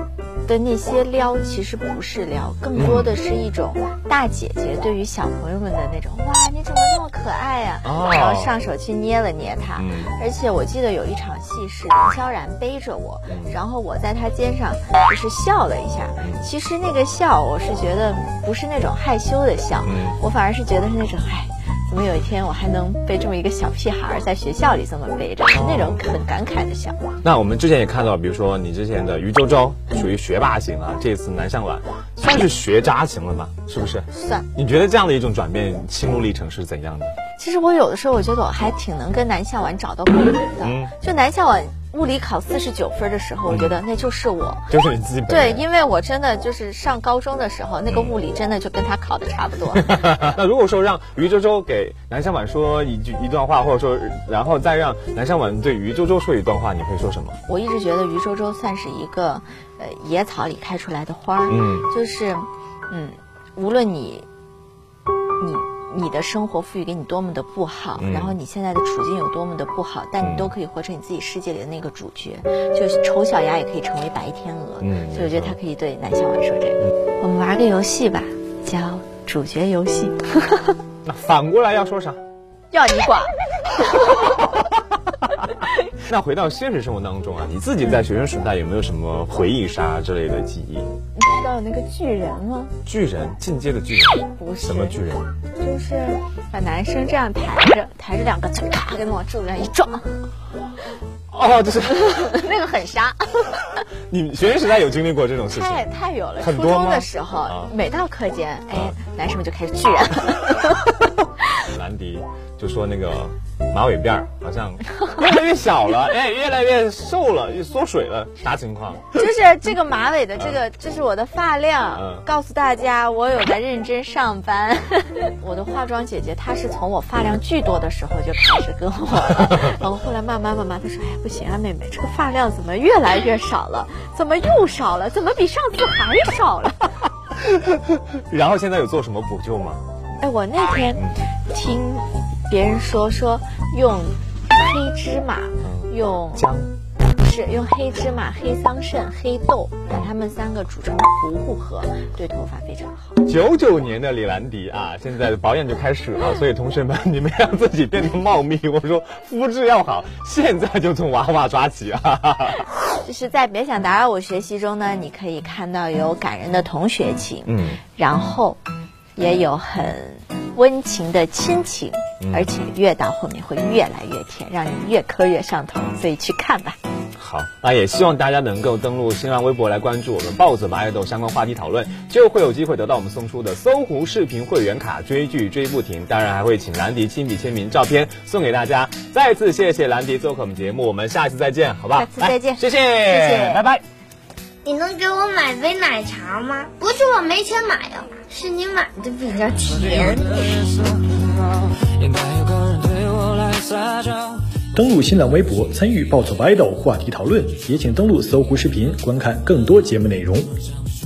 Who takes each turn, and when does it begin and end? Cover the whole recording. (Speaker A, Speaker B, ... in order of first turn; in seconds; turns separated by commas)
Speaker A: 0.5-27.0, Speaker B: 2.7-3.1, Speaker B: 7.8-8.5, Speaker B: 9.8-10.1, Speaker B: 13.3-13.6, Speaker B: 19.8-20.2, Speaker B: 25.5-26.0, Speaker B: 27.2-37.1, Speaker A: 34.1-34.5, Speaker A: 37.4-44.7, Speaker B: 40.6-40.9, Speaker B: 43.5-43.8, Speaker B: 44.7-45.6, Speaker A: 45.3-50.0, Speaker B: 49.7-57.4, Speaker A: 57.5-64.2, Speaker B: 61.5-61.9, Speaker A: 65.4-80.8, Speaker B: 68.0-68.3, Speaker B: 70.2-70.5, Speaker B: 74.8-75.6, Speaker B: 81.0-82.2, Speaker A: 82.7-84.2, Speaker B: 86.0-90.9, Speaker A: 91.2-92.7, Speaker B: 92.8-95.3, Speaker A: 94.3-95.0, Speaker A: 95.6-100.2, Speaker B: 101.3-102.5, Speaker A: 102.0-103.6, Speaker B: 104.1-105.9, Speaker A: 105.5-111.0, Speaker B: 106.4-107.7, Speaker B: 111.6-119.2, Speaker A: 119.1-137.0, Speaker B: 121.9-122.2, Speaker B: 137.4-139.8, Speaker A: 140.2-146.5, Speaker B: 145.6-146.7, Speaker A: 147.2-153.2, Speaker B: 153.2-162.7, Speaker A: 163.0-168.6, Speaker B: 167.5-167.8, Speaker A: 169.2-176.8, Speaker B: 172.2-172.5, Speaker B: 177.2-193.8, Speaker A: 191.9-193.7, Speaker C: 194.6-200.8, Speaker D: 201.5-204.2, Speaker E: 204.8-210.6